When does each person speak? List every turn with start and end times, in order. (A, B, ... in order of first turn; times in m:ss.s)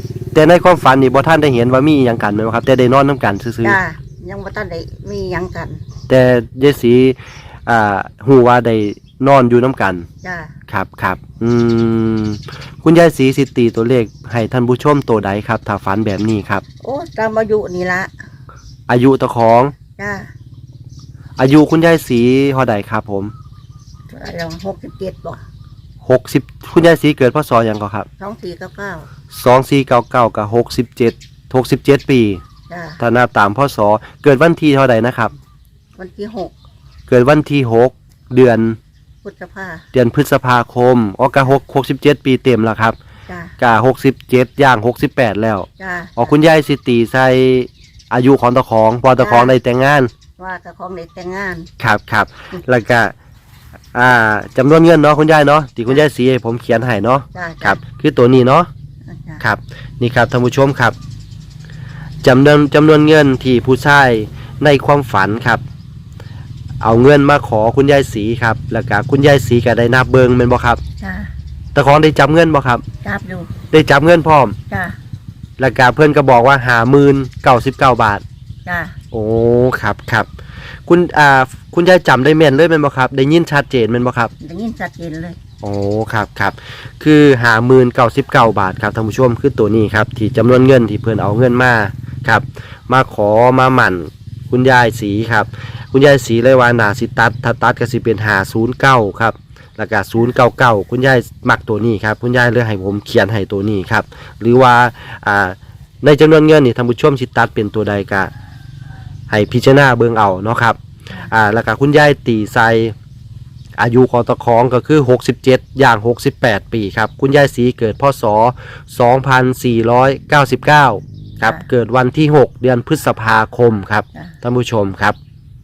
0:00.3-0:03.8 A
0:03.6-0:05.8 B
0:06.1-0:10.1 A
0:10.2-0:10.5 B
0:10.7-0:16.6 A
0:16.8-0:18.1 B
0:18.9-0:19.7 A
0:20.0-0:20.3 B
0:21.4-0:23.3 A
0:24.1-0:25.4 B
0:26.0-0:28.1 A
0:28.2-0:29.1 B
0:29.3-0:32.4 A
0:32.7-0:33.0 B
0:33.0-0:35.4 A
0:36.0-0:36.5 B
0:37.1-0:38.8 A
0:39.2-0:39.8 B
0:39.9-0:43.0 A
0:43.3-0:43.5 B
0:43.6-0:50.1 A
0:45.8-0:46.4 B
0:49.2-0:49.6 B
0:50.4-0:51.7 B
0:51.8-0:53.1 A
0:53.9-0:58.7 A
0:57.3-0:57.8 B
0:59.1-0:59.4 B
0:59.4-1:00.9 A
1:02.2-1:05.6 A
1:06.8-1:10.8 A
1:11.0-1:11.3 B
1:11.8-1:12.8 A
1:13.0-1:13.5 B
1:13.7-1:14.6 A
1:14.7-1:15.0 B
1:15.6-1:18.2 A
1:18.7-1:19.0 B
1:19.1-1:20.3 A
1:20.9-1:24.3 A
1:24.4-1:25.4 B
1:25.6-1:48.3 A
1:49.3-1:50.8 A
1:51.3-1:52.9 A
1:53.8-2:05.2 A